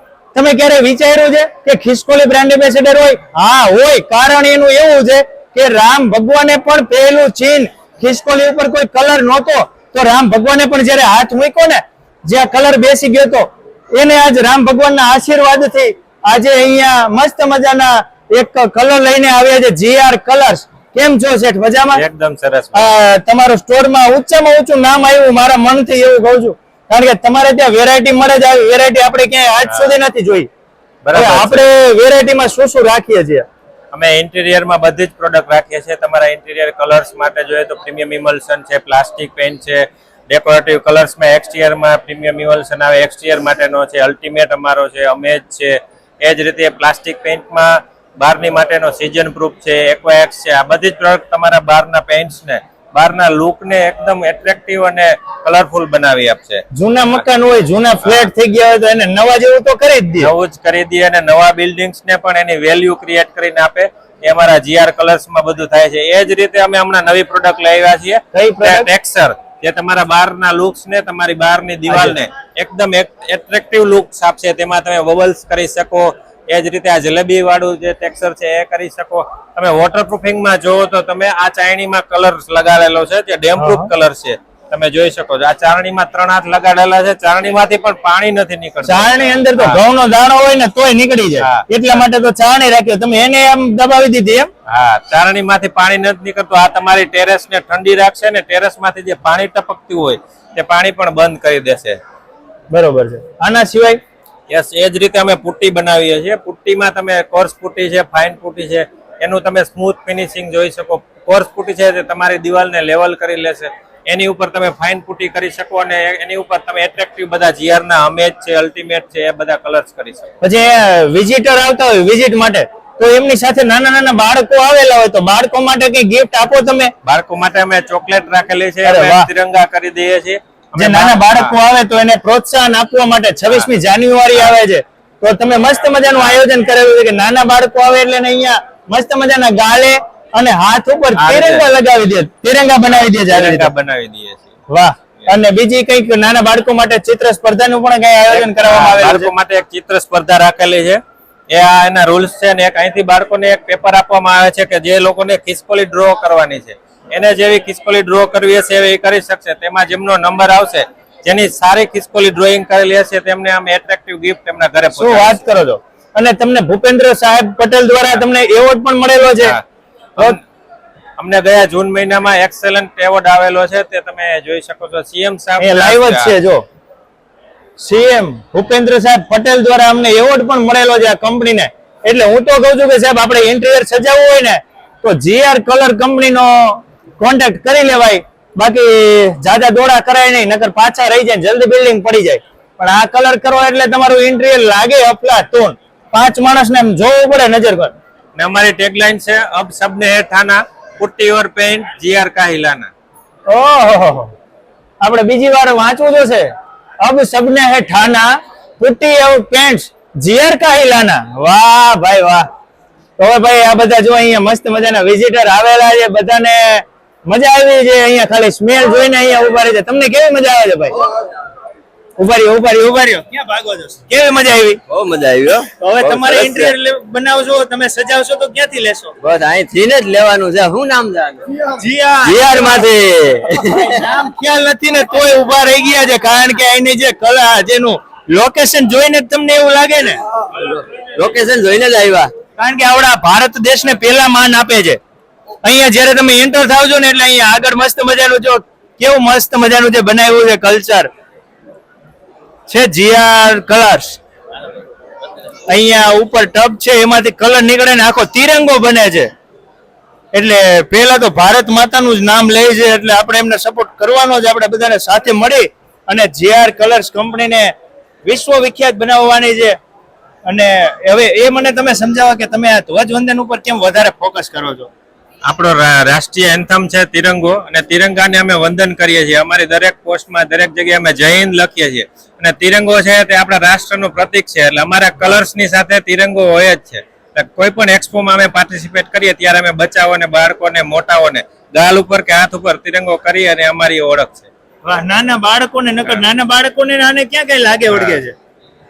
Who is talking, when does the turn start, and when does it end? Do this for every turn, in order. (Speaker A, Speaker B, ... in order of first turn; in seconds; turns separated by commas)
Speaker A: 0.3-22.0, Speaker B: 21.9-22.9, Speaker A: 22.7-30.5, Speaker B: 29.7-29.9, Speaker B: 31.0-31.6, Speaker A: 31.1-33.4, Speaker B: 33.9-56.6, Speaker A: 56.7-60.3, Speaker B: 58.0-58.3, Speaker B: 60.2-89.8, Speaker A: 68.3-68.9, Speaker A: 71.9-72.2, Speaker A: 83.6-83.9, Speaker A: 88.8-94.5, Speaker B: 91.4-92.0, Speaker B: 94.7-102.0, Speaker A: 102.7-104.0, Speaker B: 104.5-120.3, Speaker A: 120.4-126.9, Speaker B: 127.0-131.5, Speaker A: 128.8-129.3, Speaker A: 130.8-143.7, Speaker B: 136.1-136.4, Speaker B: 141.2-141.7, Speaker B: 142.9-144.5, Speaker A: 144.7-149.3, Speaker B: 148.3-151.0, Speaker B: 151.5-165.4, Speaker A: 165.0-169.6, Speaker B: 171.2-176.3, Speaker A: 175.6-176.6, Speaker A: 177.8-197.9, Speaker B: 198.4-202.9, Speaker A: 203.5-204.3, Speaker A: 205.0-212.5, Speaker A: 213.2-221.0, Speaker A: 222.2-224.8, Speaker C: 224.9-226.7, Speaker A: 225.8-229.2, Speaker C: 229.2-231.6, Speaker A: 231.7-232.8, Speaker C: 232.2-234.1, Speaker A: 233.9-240.2, Speaker C: 240.5-242.3, Speaker A: 242.6-245.0, Speaker A: 245.6-251.1, Speaker A: 252.7-254.2, Speaker A: 255.7-259.3, Speaker A: 260.3-267.7, Speaker A: 268.2-269.8, Speaker A: 270.5-274.9, Speaker B: 275.5-294.5, Speaker A: 294.9-298.3, Speaker B: 297.9-298.2